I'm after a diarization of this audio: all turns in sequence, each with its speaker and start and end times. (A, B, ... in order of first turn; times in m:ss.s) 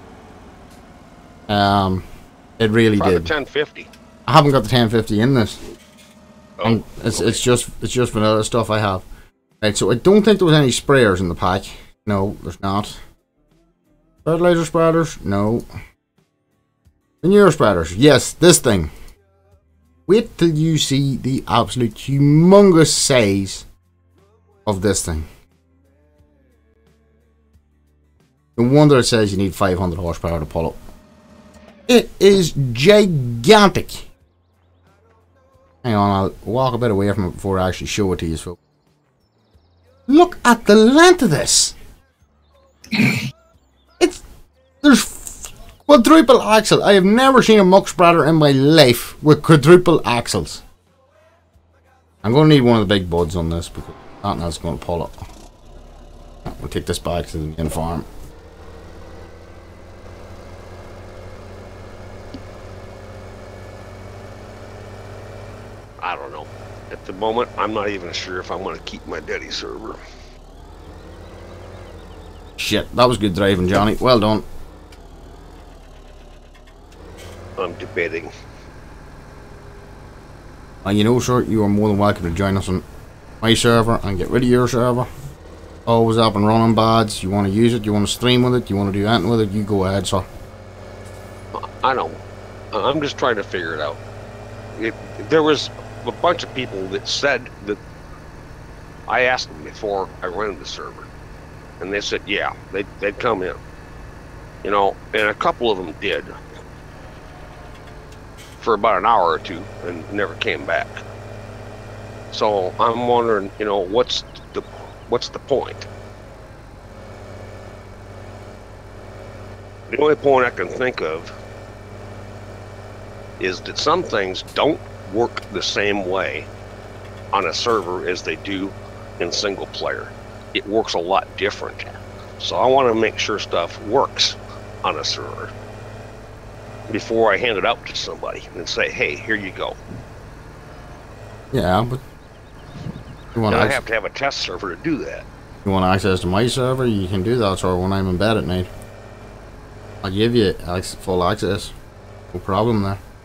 0:01.5-0:02.0 A
0:02.6-0:03.3 A
0:03.0-0:03.9 B
0:04.3-0:05.6 A
0:06.6-0:07.4 B
0:06.6-0:09.0 A
0:09.6-0:13.0 A
0:14.2-0:15.6 A
0:17.2-0:18.9 A
0:20.1-0:23.6 A
0:24.6-0:25.2 A
0:28.6-0:30.8 A
0:31.9-0:34.0 A
0:35.8-0:38.6 A
0:40.1-0:41.7 A
0:44.8-0:50.6 A
0:52.2-0:55.2 A
0:56.4-0:58.1 A
1:06.0-1:10.0 B
1:12.6-1:14.4 A
1:17.6-1:18.3 B
1:20.8-1:22.8 A
1:23.4-1:25.1 A
1:25.8-1:30.3 A
1:31.5-1:32.2 B
1:32.7-1:34.0 B
1:34.7-1:37.8 B
1:39.1-1:41.1 B
1:41.8-1:43.6 B
1:44.6-1:46.3 B
1:48.6-1:51.0 B
1:52.3-1:55.9 B
1:59.9-2:01.3 B
2:03.4-2:06.5 B
2:07.3-2:15.5 B
2:16.9-2:19.8 B
2:21.5-2:22.0 A
2:23.3-2:23.8 A
2:23.5-2:25.2 B
2:25.6-2:28.7 A
2:30.0-2:31.7 A
2:32.3-2:33.0 A